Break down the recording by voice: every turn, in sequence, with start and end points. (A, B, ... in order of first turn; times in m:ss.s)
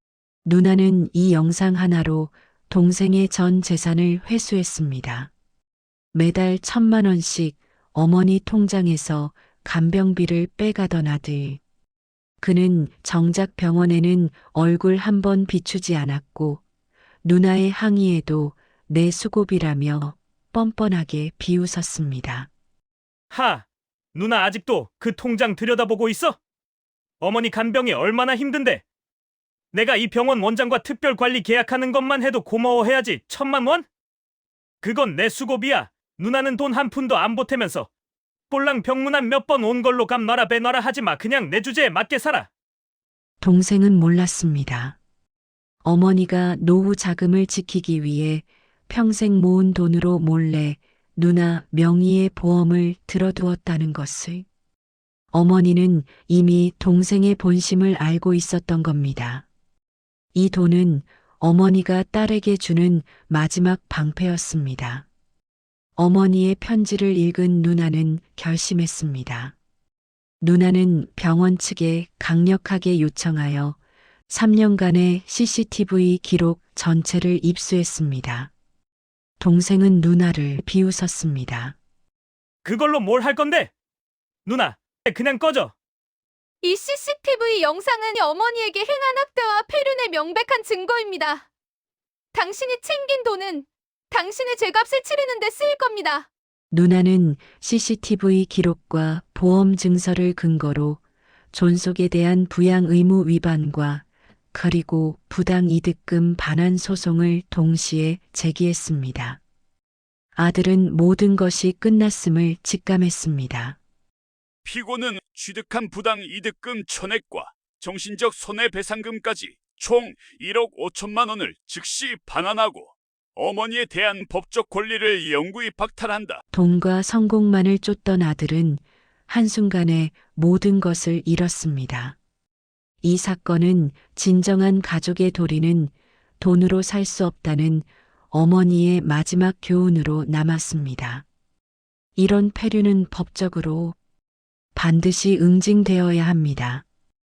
0:00.4-0:05.3 A
0:06.1-0:11.6 A
0:12.4-0:16.6 A
0:17.2-0:22.5 A
0:23.3-0:26.4 B
0:27.2-0:28.8 B
0:29.7-0:33.9 B
0:34.8-0:37.9 B
0:38.5-0:42.5 B
0:43.4-0:45.0 A
0:45.8-0:54.4 A
0:55.3-0:59.4 A
1:00.3-1:05.1 A
1:06.0-1:09.6 A
1:10.4-1:13.8 A
1:14.3-1:18.5 A
1:19.4-1:21.8 A
1:22.6-1:23.7 B
1:24.4-1:25.7 B
1:26.6-1:31.4 C
1:32.3-1:36.3 C
1:36.7-1:41.0 A
1:41.5-1:49.4 A
1:50.3-1:53.8 A
1:54.6-2:06.4 D
2:06.5-2:12.2 A
2:13.0-2:21.2 A
2:22.2-2:24.0 A
2:24.7-2:26.8 A